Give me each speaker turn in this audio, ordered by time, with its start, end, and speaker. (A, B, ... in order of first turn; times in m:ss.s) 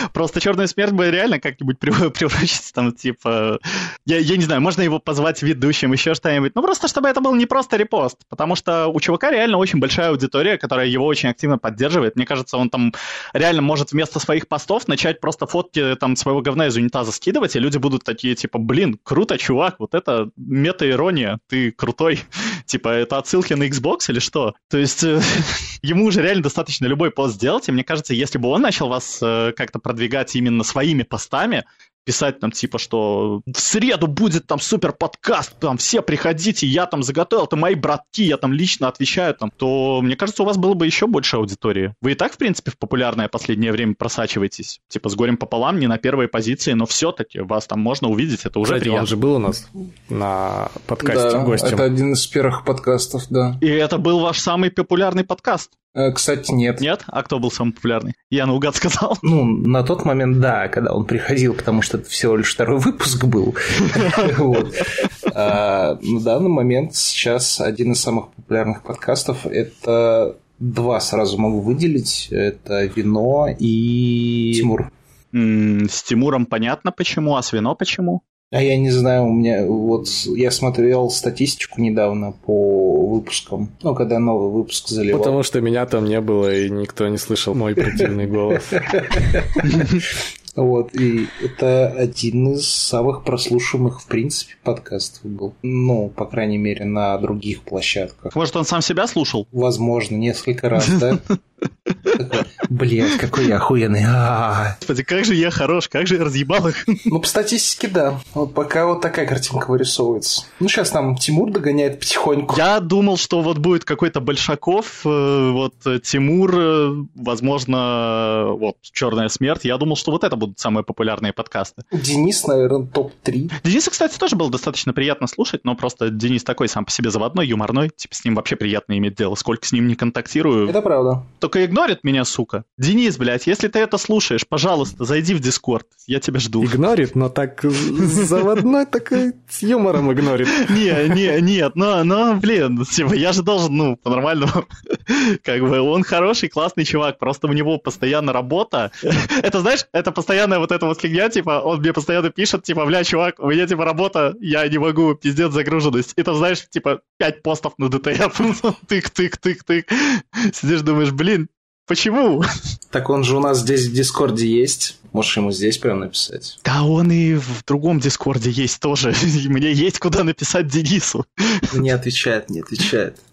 0:00.1-0:49.1 A
0:48.6-0:51.8 B
0:51.0-0:53.6 C
0:53.6-0:55.7 A
0:55.9-0:56.8 C
0:56.8-0:59.2 A
0:59.2-1:14.9 C
1:15.3-1:18.2 A
1:18.5-1:25.4 C
1:25.1-1:29.1 B
1:28.7-1:30.0 C
1:30.6-1:38.3 C
1:38.3-1:39.5 A
1:39.5-1:41.2 C
1:41.0-1:41.3 A
1:42.1-1:44.8 C
1:44.8-1:47.1 A
1:47.1-1:52.6 C
1:52.5-2:01.8 A
2:01.9-2:03.6 C
2:03.6-2:10.8 A
2:10.6-2:11.2 C
2:11.4-2:16.8 A
2:16.6-2:21.2 B
2:18.0-2:18.3 A
2:20.5-2:42.5 A
2:42.9-2:46.6 C
2:46.6-2:51.8 A
2:51.7-2:53.2 C